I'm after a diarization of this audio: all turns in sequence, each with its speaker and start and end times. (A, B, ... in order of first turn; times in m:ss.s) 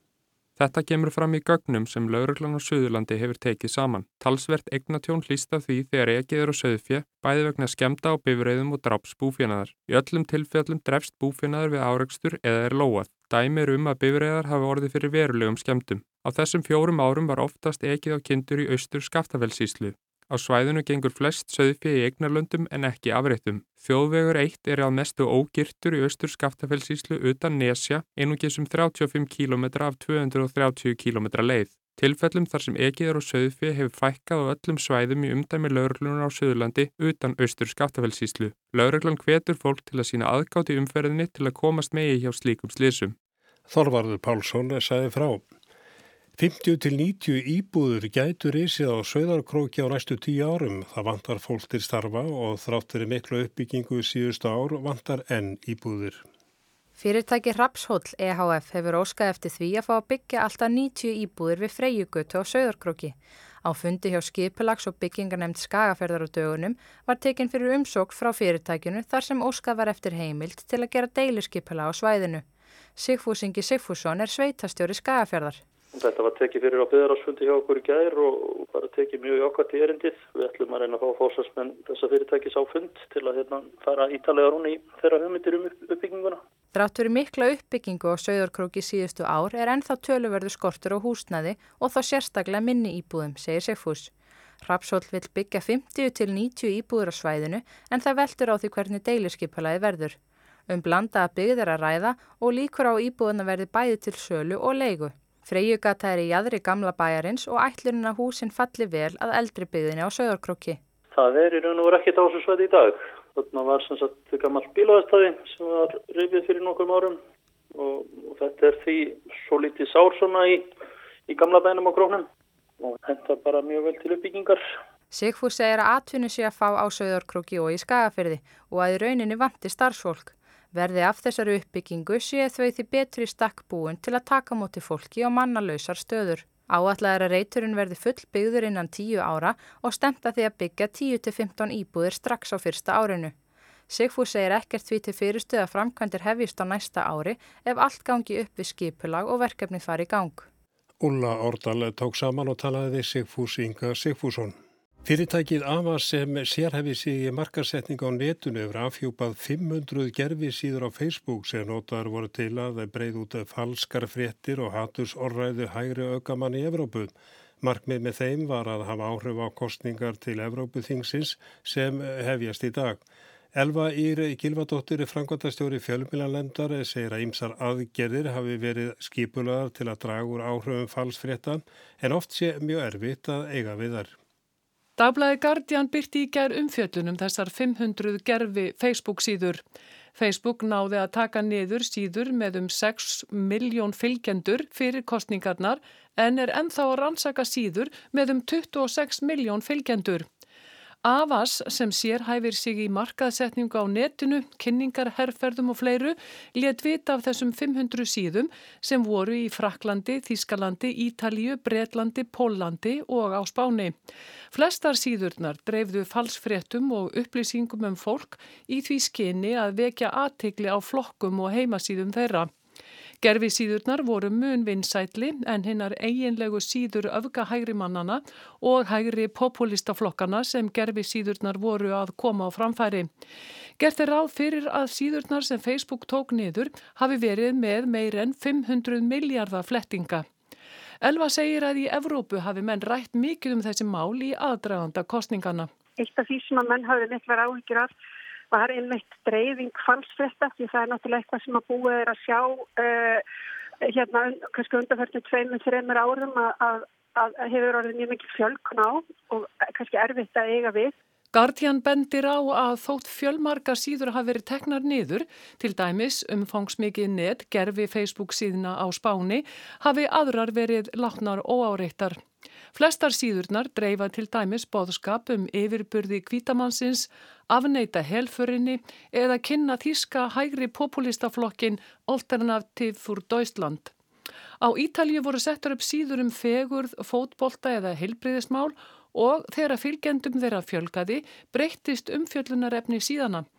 0:00.6-0:43.2 A
0:43.7-0:45.4 B
0:46.4-0:56.2 B
0:57.0-1:12.4 C
1:13.0-1:15.6 C
1:15.9-1:26.4 D
1:26.8-1:34.1 C
1:34.6-1:40.2 C
1:40.7-1:50.8 C
1:51.1-1:57.2 D
1:57.7-2:00.7 D
2:01.3-2:02.3 D
2:02.8-2:04.6 D
2:05.1-2:23.3 C
2:23.9-2:30.5 C
2:31.0-2:53.0 B
2:53.6-3:04.1 B
3:05.0-3:09.6 E
3:10.2-3:20.3 E
3:21.0-3:34.0 E
3:34.5-3:42.5 E
3:43.2-3:53.1 E
3:53.8-4:00.3 E
4:01.0-4:05.7 E
4:06.0-4:07.9 F
4:08.5-4:13.2 F
4:13.8-4:21.0 F
4:21.3-4:32.2 E
4:32.7-4:43.9 E
4:44.6-4:53.5 E